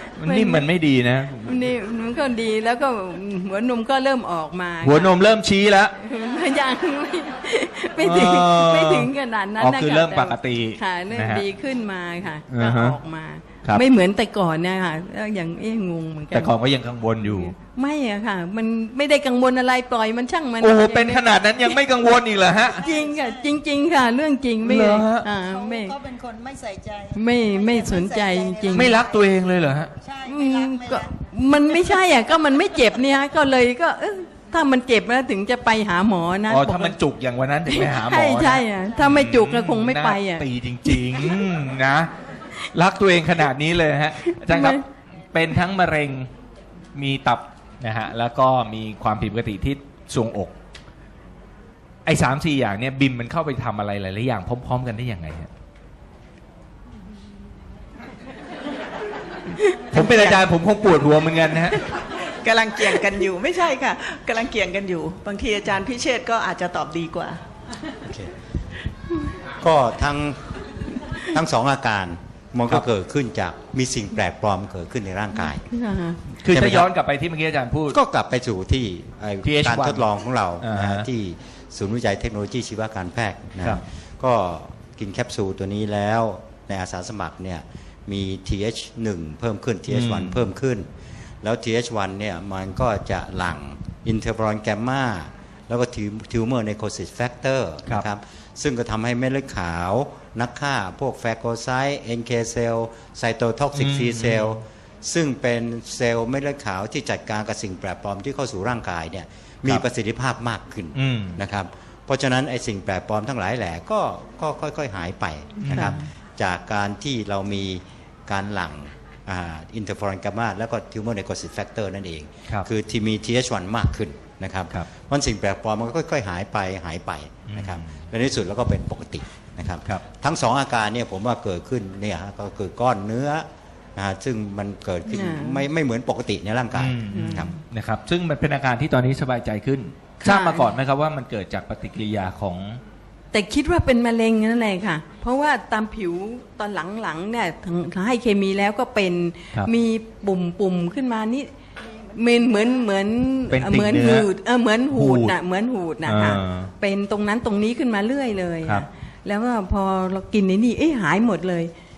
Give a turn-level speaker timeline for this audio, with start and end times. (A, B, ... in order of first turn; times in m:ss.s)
0:00.2-0:01.7 A
0:00.2-0:00.7 B
0:01.4-0:05.2 B
0:04.8-0:05.9 A
0:05.9-0:16.5 B
0:08.0-0:11.4 A
0:12.5-0:13.0 A
0:16.3-0:17.5 A
0:17.2-0:21.8 B
0:20.6-0:22.8 A
0:22.6-0:23.6 C
0:22.8-0:26.0 B
0:24.6-0:25.3 A
0:25.2-0:29.2 C
0:27.1-0:28.9 B
0:28.7-0:29.9 A
0:30.0-0:32.2 C
0:30.2-0:37.0 B
0:36.5-0:42.1 A
0:37.6-0:41.3 B
0:42.7-0:44.8 A
0:44.2-0:44.8 B
0:45.3-0:46.3 A
0:46.9-0:50.5 A
0:52.0-0:55.5 A
0:59.9-1:01.8 A
0:59.9-1:00.4 D
1:01.7-1:07.4 D
1:08.0-1:08.3 E
1:09.6-1:10.4 E
1:11.2-1:15.7 E
1:15.7-1:16.2 B
1:16.3-1:18.0 A
1:16.5-1:16.9 E
1:17.9-1:30.9 E
1:19.4-1:20.0 A
1:20.6-1:21.1 A
1:29.9-1:30.4 A
1:31.4-2:17.5 E
1:43.8-1:44.6 A
1:50.9-1:51.4 A
1:55.6-1:56.0 A
1:55.7-1:56.0 B
2:07.5-2:07.9 A
2:15.1-2:15.6 B
2:16.7-2:22.8 A
2:17.1-2:17.5 B
2:20.2-2:20.7 B
2:23.3-2:31.5 B
2:32.0-2:41.7 B
2:33.5-2:34.3 A
2:34.9-2:35.3 A
2:36.0-2:36.7 A